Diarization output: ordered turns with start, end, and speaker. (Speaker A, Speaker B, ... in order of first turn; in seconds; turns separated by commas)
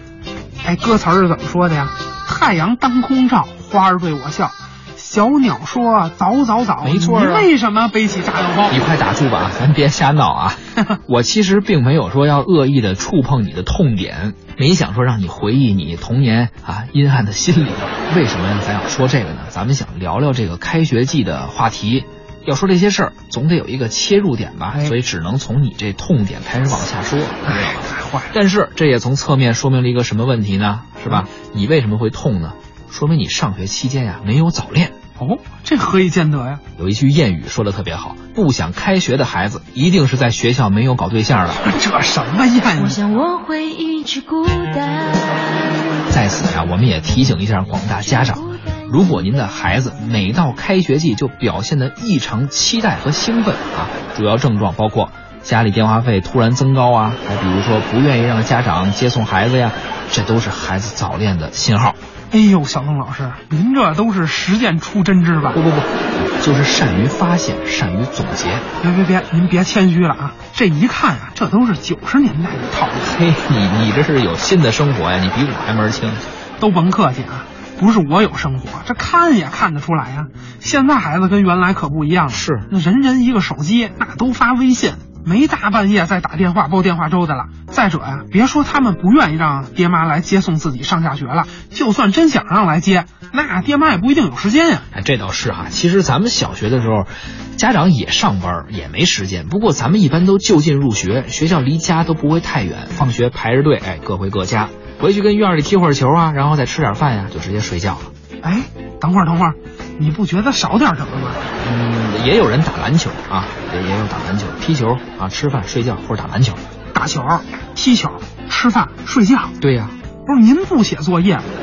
Speaker A: 0.6-8.8, Speaker B: 6.8-7.5, Speaker B: 8.7-35.0, Speaker A: 27.4-28.4, Speaker A: 35.2-36.6, Speaker B: 36.8-41.7, Speaker A: 41.6-43.2, Speaker C: 42.8-46.1, Speaker B: 46.1-62.0, Speaker C: 47.9-49.2, Speaker A: 62.3-65.6, Speaker B: 65.5-68.7, Speaker A: 68.8-73.1, Speaker B: 73.0-76.2, Speaker A: 76.6-94.9, Speaker B: 82.3-82.7, Speaker B: 94.9-108.1, Speaker A: 108.4-111.4, Speaker B: 111.6-116.6, Speaker A: 116.9-119.5, Speaker B: 119.6-120.0, Speaker A: 120.3-121.5